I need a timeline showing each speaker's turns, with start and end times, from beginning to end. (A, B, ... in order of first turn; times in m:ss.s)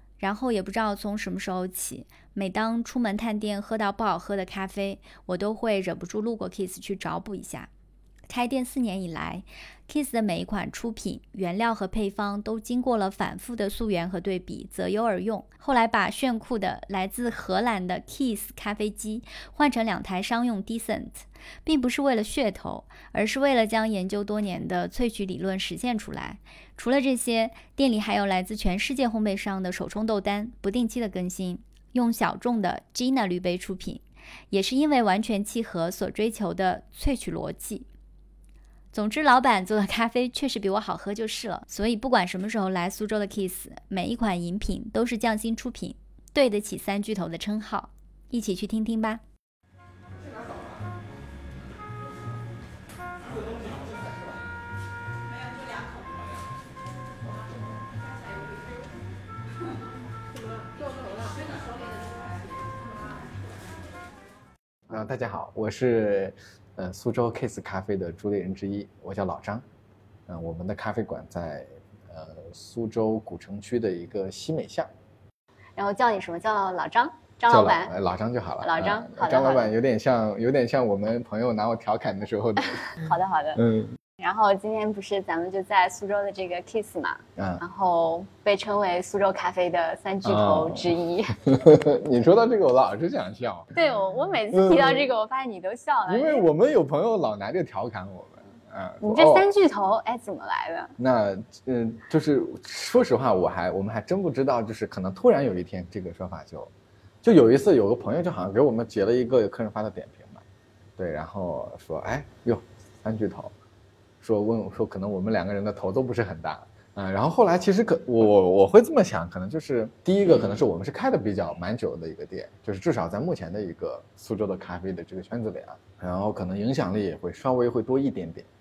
0:00.2-0:07.7 A
0:08.3-0:37.9 A
0:38.9-0:49.2 A
1:04.9-1:09.6 B
1:10.3-1:14.9 B
1:15.8-1:17.9 A
1:17.5-1:23.0 B
1:18.6-1:19.7 A
1:22.8-1:23.6 A
1:23.6-1:24.0 B
1:24.2-1:31.4 A
1:27.4-1:27.6 B
1:30.2-1:30.9 B
1:31.4-1:33.7 B
1:33.7-1:36.5 A
1:34.5-1:35.1 B
1:36.1-1:39.5 B
1:39.0-1:41.0 A
1:41.0-1:46.7 B
1:47.2-1:50.4 B
1:51.0-1:53.5 B
1:54.2-2:08.5 B